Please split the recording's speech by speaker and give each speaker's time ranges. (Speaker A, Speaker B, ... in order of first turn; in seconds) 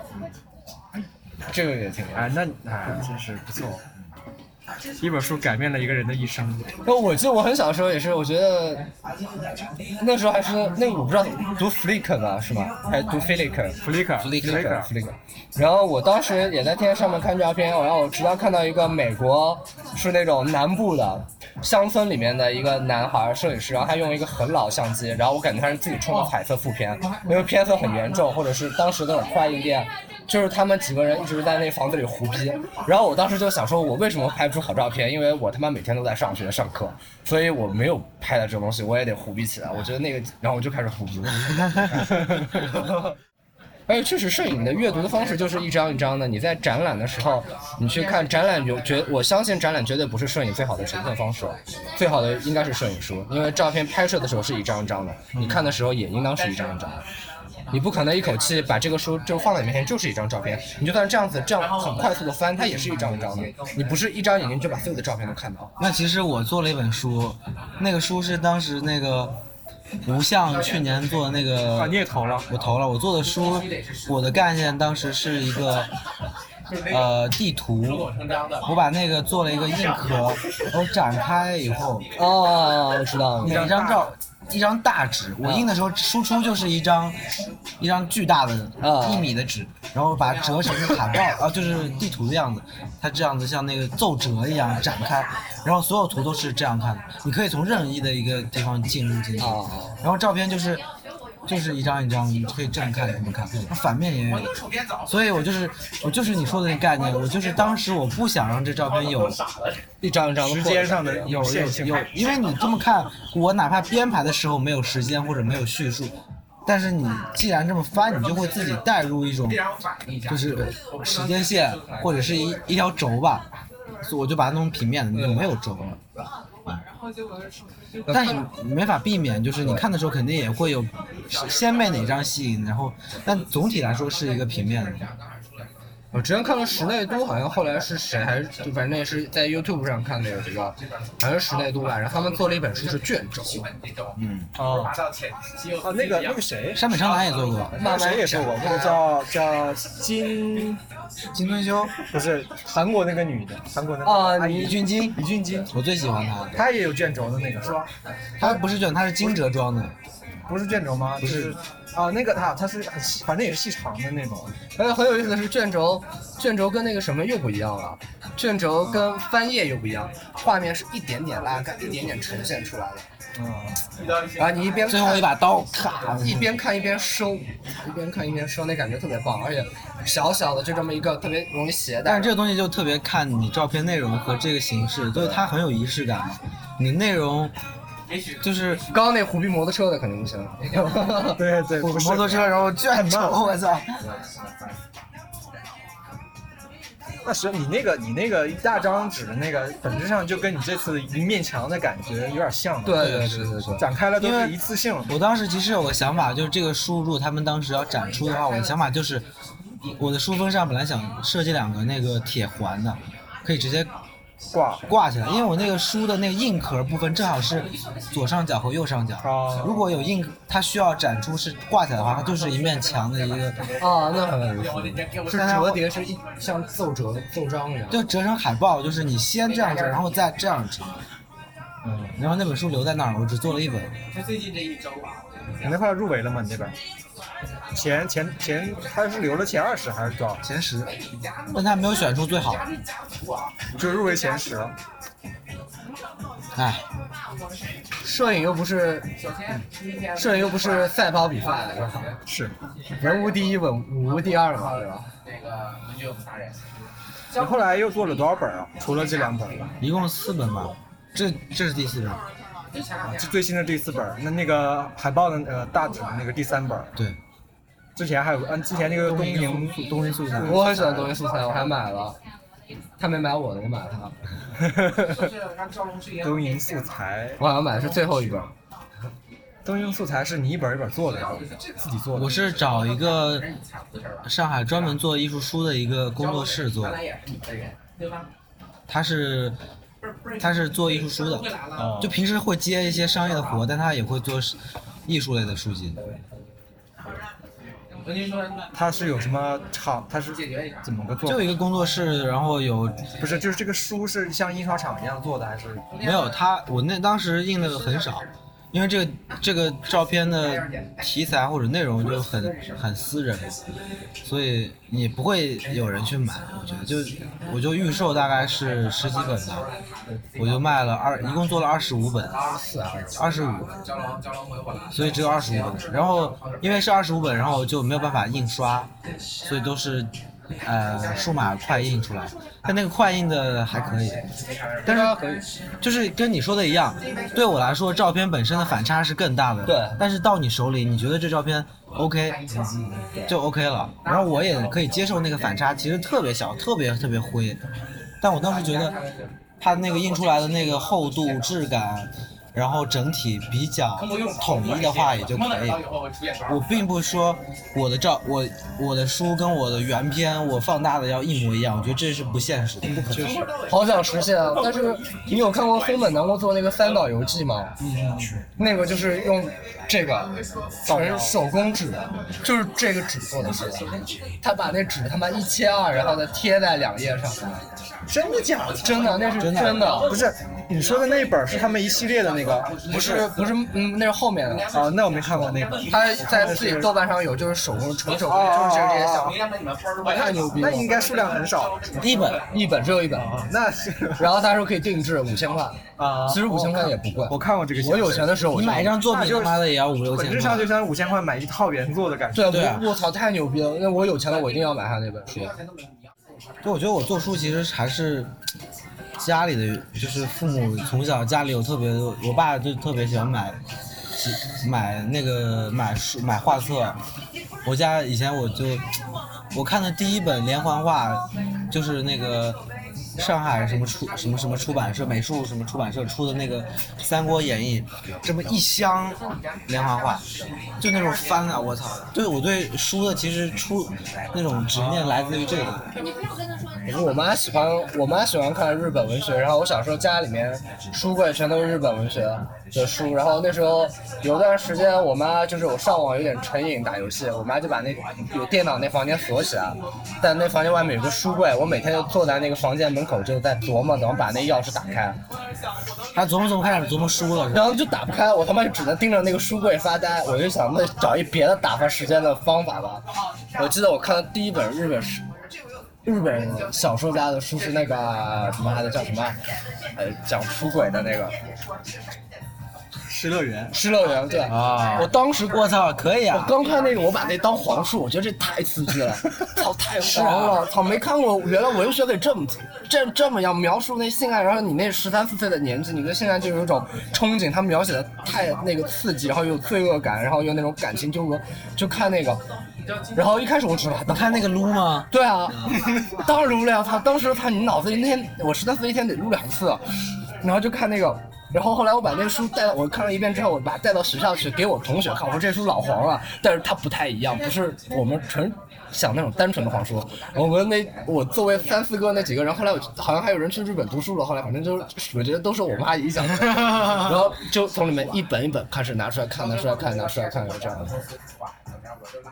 Speaker A: 1.5-2.3, 6.8-8.9, 10.0-13.8, 14.4-42.8, 43.9-57.0, 57.7-65.7, 82.2-83.7, 85.4-85.7, 88.8-89.2, 99.4-100.0, 110.0-111.3, 128.1-128.3, 136.1-143.7, 147.8-149.0, 154.0-154.8, 164.8-173.1, 174.3-175.3, 176.2-182.3, 188.9-191.4, 202.8-203.8, 223.8-228.0, 248.0-249.1, 250.1-252.1, 253.0-255.1, 270.4-272.2, 273.0-274.1, 277.4-278.5, 322.6-323.1, 334.8-335.4, 339.6-340.0, 363.7-367.7, 368.6-370.3, 370.9-377.6, 378.8-380.1, 382.9-384.7, 385.9-389.4, 390.1-390.9, 392.4-393.3, 394.2-398.9, 402.3-405.5, 436.9-455.2, 457.5-463.0, 463.6-465.3, 466.0-469.4, 470.0-471.4, 473.7-475.7, 476.3-492.4, 493.1-494.5, 495.1-499.8, 500.4-521.0
Speaker B: 2.1-3.8, 5.0-6.7, 13.8-14.9, 55.4-55.6, 71.7-72.5, 83.4-84.1, 110.4-112.1, 144.6-145.0, 145.8-146.9, 147.8-150.8, 152.1-155.7, 156.5-157.9, 160.5-164.5, 173.3-173.8, 191.3-193.4, 197.2-203.2, 203.8-205.1, 214.5-214.8, 219.2-219.7, 231.8-232.2, 235.6-236.7, 237.7-240.4, 243.7-244.7, 252.3-252.5, 257.3-259.7, 263.0-266.9, 267.9-271.1, 274.6-275.3, 276.2-277.4, 279.6-282.4, 291.7-292.2, 298.7-301.5, 303.2-305.9, 362.9-363.5, 367.8-368.4, 370.9-371.3, 378.1-379.4, 380.0-383.3, 384.7-386.9, 388.3-389.4, 390.4-391.8, 393.1-394.2, 396.0-402.6, 434.7-435.8, 473.1-473.7
Speaker C: 14.2-14.8, 65.8-69.4, 70.0-75.9, 76.9-78.1, 78.6-82.1, 83.4-87.2, 87.8-100.8, 101.5-109.4, 111.2-116.1, 116.6-119.6, 120.3-123.5, 124.0-126.0, 128.1-135.1, 144.2-144.5, 146.7-147.8, 151.3-151.9, 154.6-156.6, 158.4-159.9, 161.2-161.6, 174.9-176.6, 182.0-187.5, 188.4-188.8, 191.8-194.0, 202.9-204.6, 205.1-209.3, 210.0-213.9, 214.9-223.8, 225.3-225.8, 227.9-231.0, 232.2-233.9, 240.4-240.9, 241.5-242.7, 246.5-246.8, 259.8-262.2, 269.0-270.8, 282.1-283.5, 284.2-287.0, 288.9-289.6, 290.4-296.0, 301.2-303.1, 306.0-313.6, 314.2-319.7, 320.4-322.4, 323.2-323.8, 324.9-334.2, 334.8-335.1, 335.8-342.4, 343.2-347.6, 348.2-349.0, 349.6-355.8, 356.4-363.4, 379.4-380.0, 392.0-392.4, 398.5-400.7, 402.5-402.9, 406.6-408.3, 409.2-413.6, 414.1-417.0, 417.6-418.9, 419.5-422.6, 423.2-430.2, 430.8-435.9, 456.1-457.7, 474.5-476.5, 494.1-495.1